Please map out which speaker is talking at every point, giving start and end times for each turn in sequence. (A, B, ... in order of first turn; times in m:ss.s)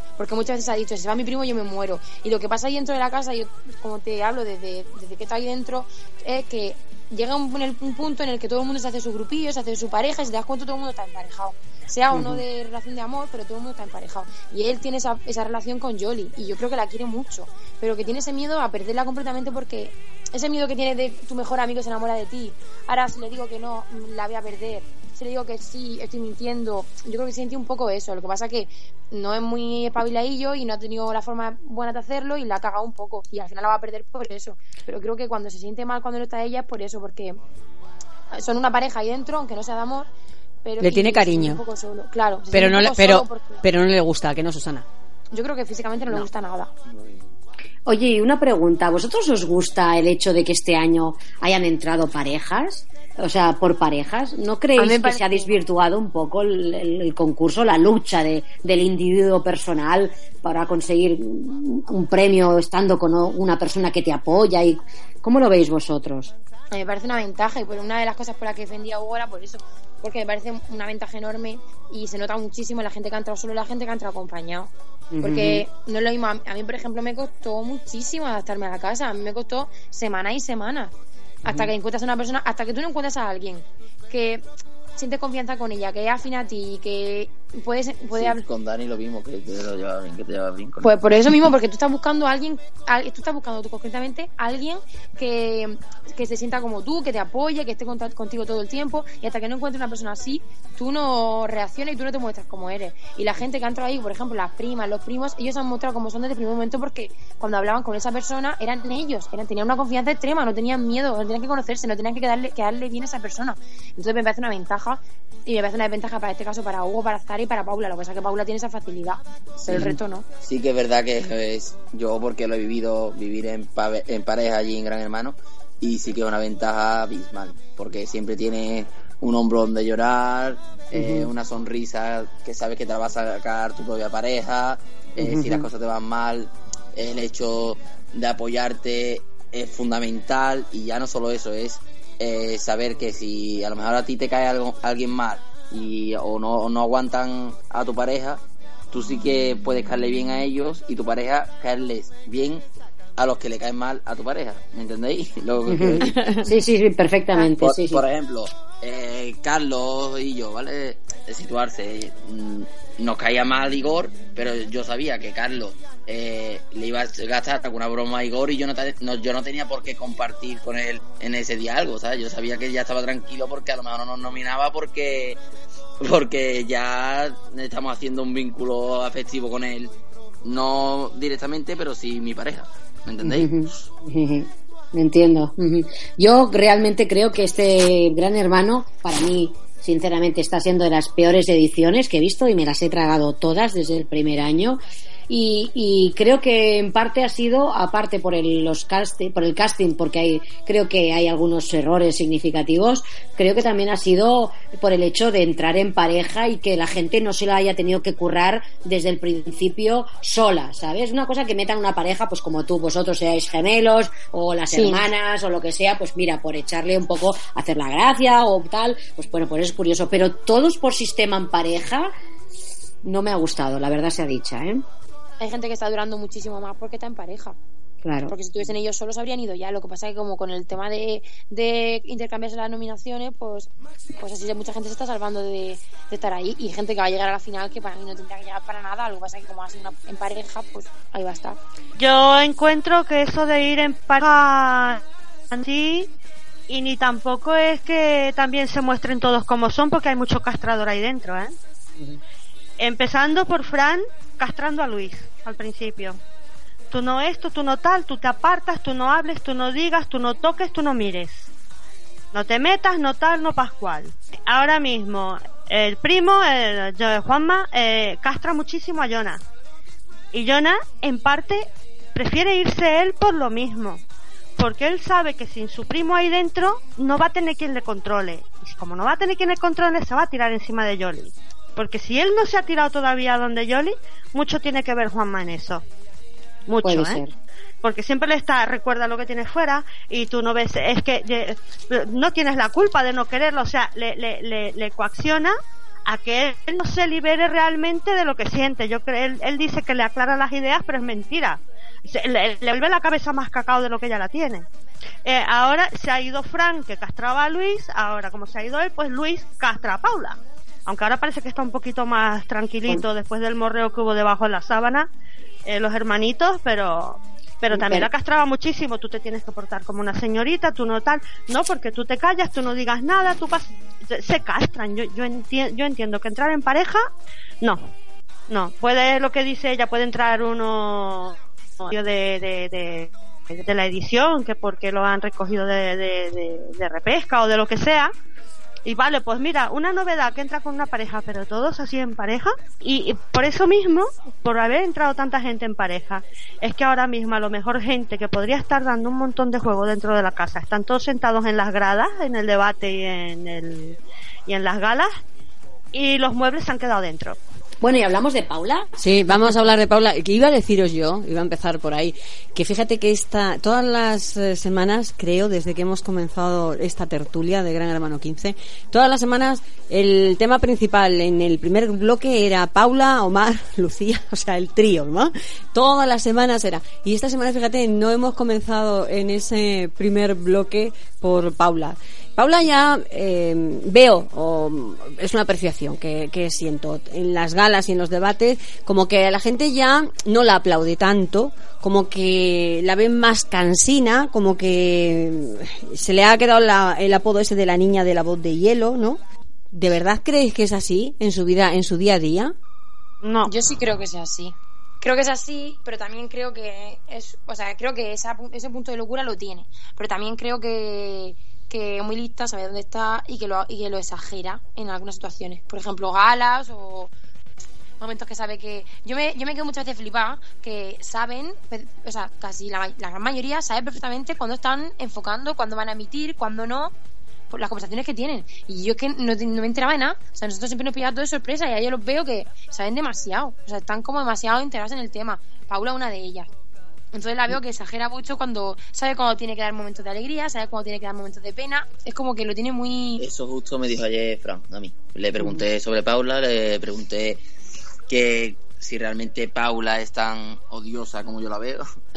0:00.2-0:37.4 A
0:12.1-0:12.4 B
0:38.3-0:40.1 A
0:40.6-0:43.6 A
0:40.8-0:41.6 C
0:42.5-0:44.9 C
0:45.3-0:46.7 A
0:47.9-1:06.3 B
0:54.8-0:55.5 A
1:06.7-1:14.7 A
1:15.1-1:15.6 B
1:15.2-1:20.9 A
1:21.4-1:24.4 A
1:21.5-1:21.7 B
1:25.0-1:28.4 A
1:28.1-1:30.9 D
1:30.8-2:00.3 A
1:59.6-2:32.6 D
1:59.7-1:59.9 B
2:10.9-2:11.3 B
2:15.2-2:15.7 B
2:33.2-2:36.2 D
2:35.7-2:38.0 B
2:37.6-2:55.4 D
2:56.0-2:59.9 D
3:00.4-3:03.8 D
3:03.2-3:42.1 B
3:34.7-3:35.0 A
3:43.0-3:44.8 B
3:45.4-3:47.6 A
3:48.0-3:48.4 B
3:48.3-4:01.6 A
4:02.0-4:05.0 E
4:05.5-4:06.1 E
4:06.7-4:11.5 E
4:12.8-4:16.2 E
4:16.9-4:21.5 E
4:22.3-4:29.4 E
4:30.3-4:34.0 E
4:34.6-4:45.8 E
4:46.7-4:47.2 E
4:46.8-4:47.3 B
4:47.8-4:55.5 E
4:56.1-5:04.7 E
5:05.2-5:15.1 E
5:15.7-5:27.0 E
5:17.7-5:18.1 B
5:28.5-5:38.1 E
5:38.8-5:55.1 E
5:55.9-5:57.4 E
5:57.8-5:58.9 B
5:59.0-6:39.2 C
6:39.7-6:42.5 C
6:43.2-6:43.5 E
6:43.5-6:57.1 A
6:58.0-7:06.9 A
7:07.5-7:16.5 A
7:17.1-7:23.2 A
7:23.2-7:27.4 D
7:28.1-7:31.8 D